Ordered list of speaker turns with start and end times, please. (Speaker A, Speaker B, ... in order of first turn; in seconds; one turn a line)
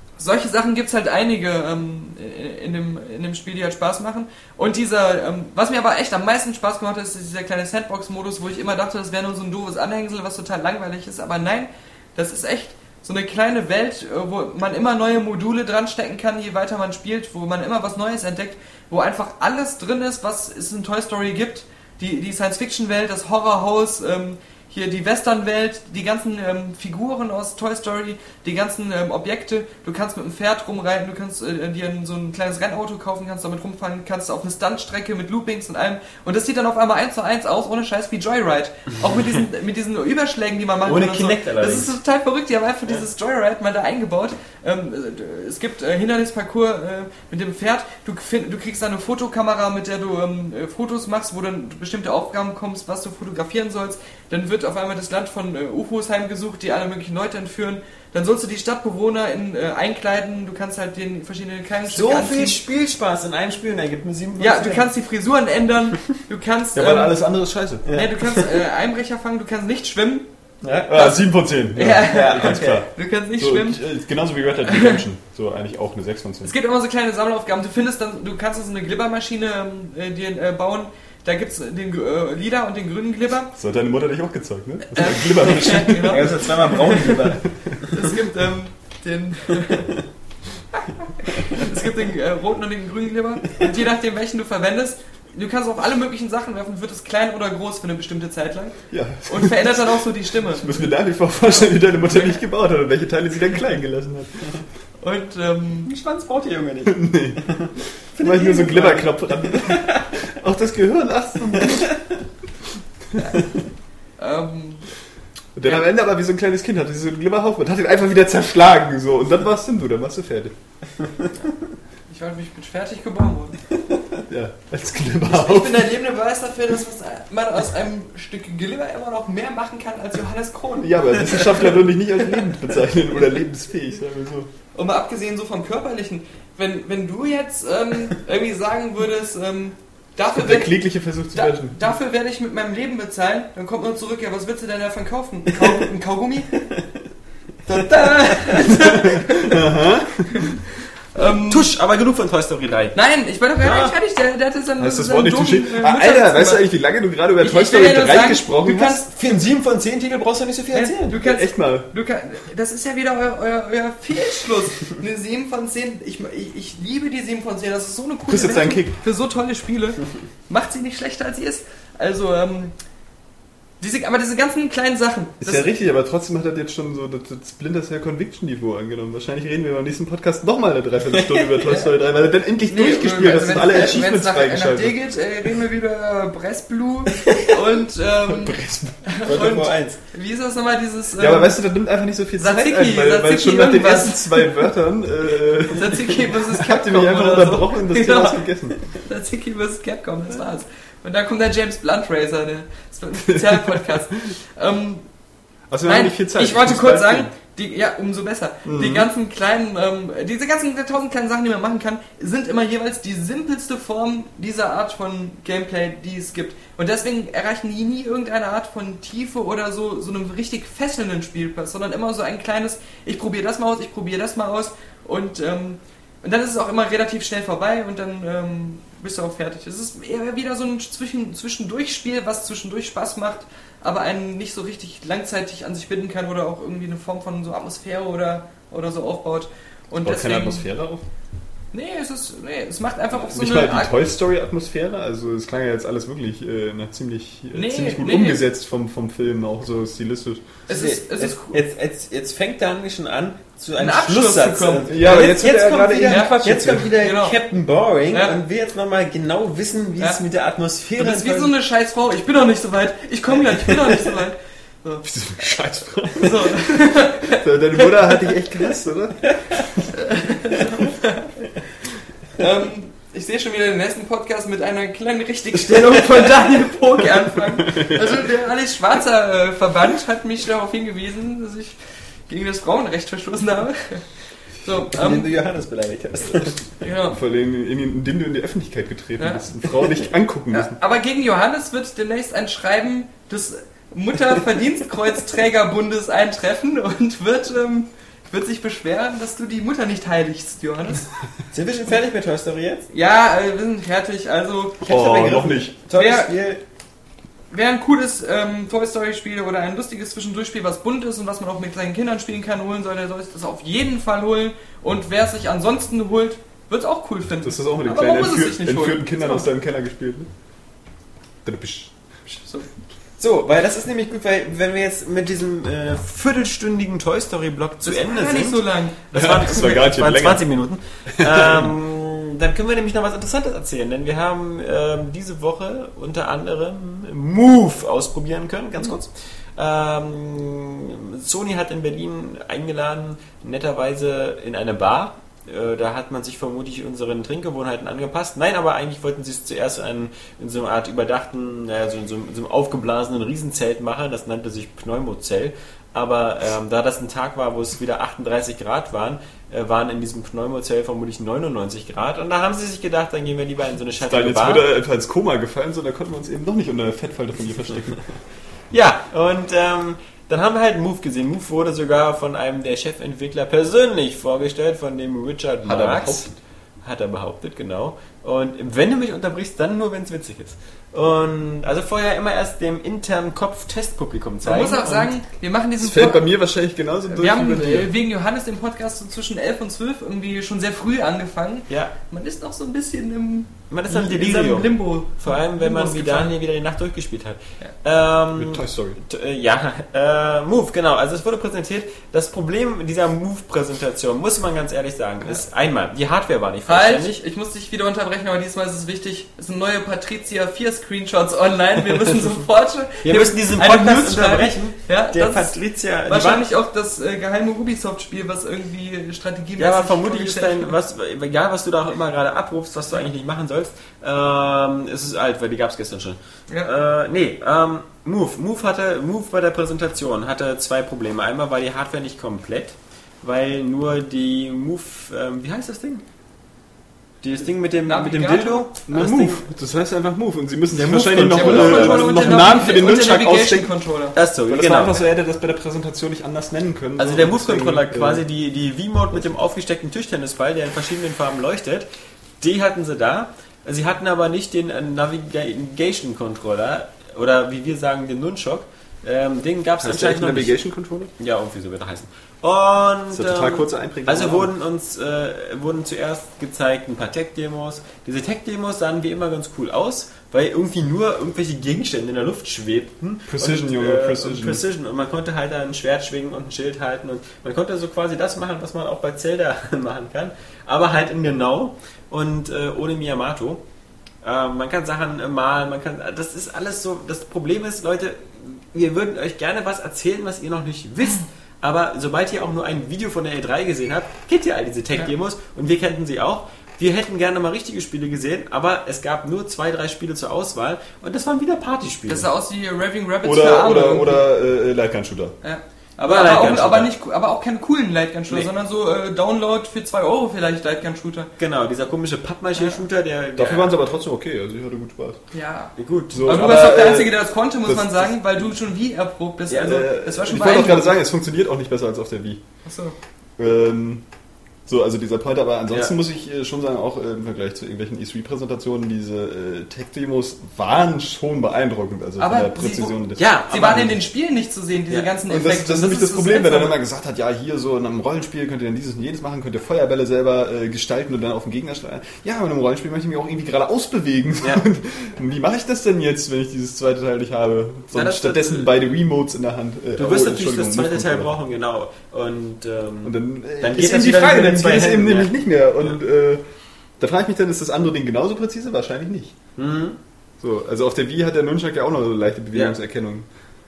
Speaker A: 0.2-62.6
Speaker B: 40.8-42.0
Speaker B: 61.9-64.9
Speaker A: 64.4-67.1
Speaker C: 66.8-67.8
Speaker B: 67.8-68.5
Speaker A: 67.9-70.3
Speaker B: 70.6-71.2
Speaker C: 70.9-76.5
Speaker A: 71.8-73.8
Speaker B: 72.0-72.8
Speaker A: 74.7-75.0
Speaker A: 76.4-83.5
Speaker C: 83.6-87.8
Speaker A: 84.9-87.3
Speaker B: 85.6-88.1
Speaker A: 87.9-90.0
Speaker A: 90.7-100.8
Speaker C: 98.9-104.6
Speaker A: 101.5-102.4
Speaker A: 105.0-105.9
Speaker B: 105.9-110.3
Speaker C: 106.9-107.5
Speaker C: 108.2-112.0
Speaker B: 111.5-112.2
Speaker A: 114.2-114.9
Speaker C: 115.5-120.5
Speaker A: 122.1-123.6
Speaker C: 124.3-125.9
Speaker A: 125.3-131.6
Speaker C: 130.8-134.5
Speaker A: 134.7-140.8
Speaker C: 140.3-141.9
Speaker A: 141.3-146.6
Speaker A: 147.7-149.6
Speaker B: 147.8-148.8
Speaker C: 148.8-150.6
Speaker A: 150.3-150.6
Speaker A: 151.1-151.7
Speaker B: 151.2-153.0
Speaker A: 152.9-156.7
Speaker B: 153.6-153.9
Speaker C: 154.8-159.0
Speaker A: 157.4-159.4
Speaker B: 159.1-161.3
Speaker A: 160.7-172.7
Speaker C: 161.2-161.9
Speaker C: 168.3-169.0
Speaker A: 173.8-175.7
Speaker C: 175.4-185.0
Speaker B: 181.1-181.8
Speaker A: 182.7-191.6
Speaker C: 188.3-189.0
Speaker B: 189.2-190.0
Speaker C: 191.2-198.8
Speaker A: 192.4-194.5
Speaker A: 195.7-198.4
Speaker A: 199.1-205.1
Speaker C: 205.7-207.3
Speaker A: 205.9-240.7
Speaker C: 208.7-209.1
Speaker C: 240.0-241.1
Speaker A: 241.7-243.9
Speaker C: 243.1-250.6
Speaker A: 247.5-248.4
Speaker A: 250.7-251.6
Speaker B: 250.7-261.5
Speaker A: 253.8-255.3
Speaker C: 254.9-256.9
Speaker A: 256.1-257.4
Speaker A: 258.1-258.4
Speaker A: 261.0-265.0
Speaker B: 263.6-264.2
Speaker C: 265.0-266.6
Speaker A: 266.2-268.4
Speaker C: 267.2-269.6
Speaker B: 269.2-269.7
Speaker A: 269.9-271.3
Speaker A: 272.4-285.3
Speaker B: 275.6-276.6
Speaker C: 277.6-278.2
Speaker B: 284.9-286.8
Speaker A: 286.8-287.2
Speaker C: 287.1-290.8
Speaker A: 289.2-289.4
Speaker A: 290.5-301.1
Speaker B: 301.5-302.9
Speaker A: 302.9-306.3
Speaker C: 304.9-305.8
Speaker B: 304.9-306.6
Speaker A: 307.5-319.5
Speaker C: 317.4-320.3
Speaker C: 321.4-321.9
Speaker A: 322.3-322.7
Speaker B: 323.2-364.7
Speaker A: 327.8-329.0
Speaker C: 329.1-330.4
Speaker C: 331.2-331.7
Speaker C: 364.1-368.0
Speaker B: 368.7-385.1
Speaker C: 375.6-376.3
Speaker A: 384.4-386.3
Speaker C: 385.8-387.9
Speaker A: 387.1-396.3
Speaker B: 391.7-391.9
Speaker B: 393.7-407.2
Speaker C: 398.4-399.0
Speaker A: 406.7-420.7
Speaker B: 413.0-416.5
Speaker B: 419.6-436.0
Speaker B: 437.2-439.5
Speaker A: 437.9-438.7
Speaker C: 438.9-443.7
Speaker B: 440.7-442.6
Speaker A: 441.4-444.1
Speaker B: 444.1-445.1
Speaker C: 444.5-448.2
Speaker B: 447.0-451.9
Speaker B: 452.4-460.6
Speaker C: 459.8-461.1
Speaker B: 461.2-483.6
Speaker C: 463.1-464.5
Speaker C: 473.3-474.6
Speaker B: 484.2-502.3
Speaker A: 502.1-504.3
Speaker C: 503.2-505.4
Speaker A: 505.4-511.3
Speaker B: 506.0-506.9
Speaker B: 511.4-513.8
Speaker C: 513.4-515.2
Speaker A: 515.3-515.7
Speaker B: 515.8-516.9
Speaker C: 516.1-518.1
Speaker A: 516.2-520.9
Speaker B: 519.5-519.8
Speaker C: 519.6-522.4
Speaker A: 522.7-523.0
Speaker C: 523.4-524.0
Speaker C: 524.7-534.0
Speaker A: 532.2-536.8
Speaker B: 533.1-534.0
Speaker C: 535.3-551.3
Speaker B: 547.9-548.7
Speaker B: 550.0-556.0
Speaker C: 553.0-556.4
Speaker C: 557.0-559.4
Speaker B: 559.6-560.0
Speaker C: 560.4-563.3